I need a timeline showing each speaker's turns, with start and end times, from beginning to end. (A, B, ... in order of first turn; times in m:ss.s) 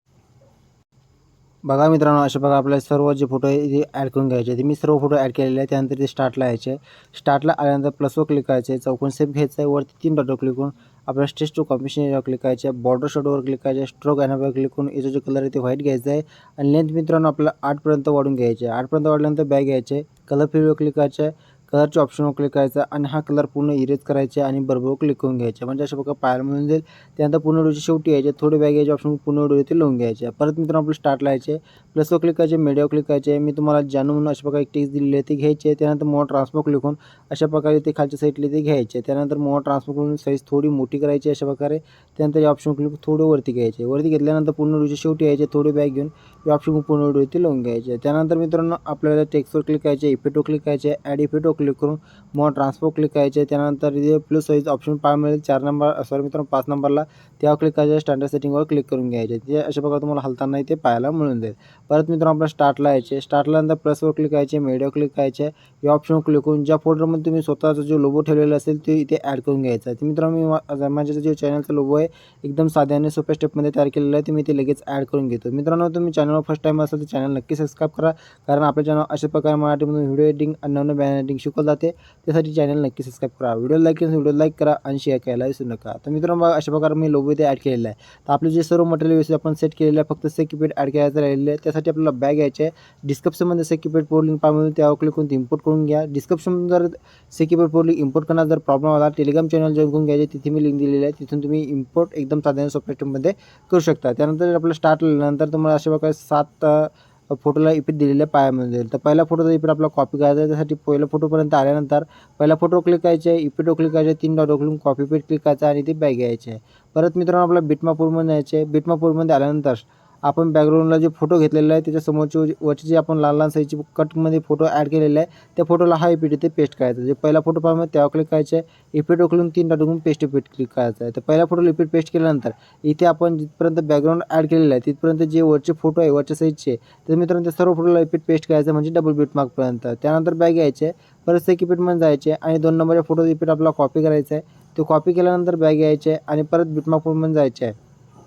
0:01.6-2:27.7 A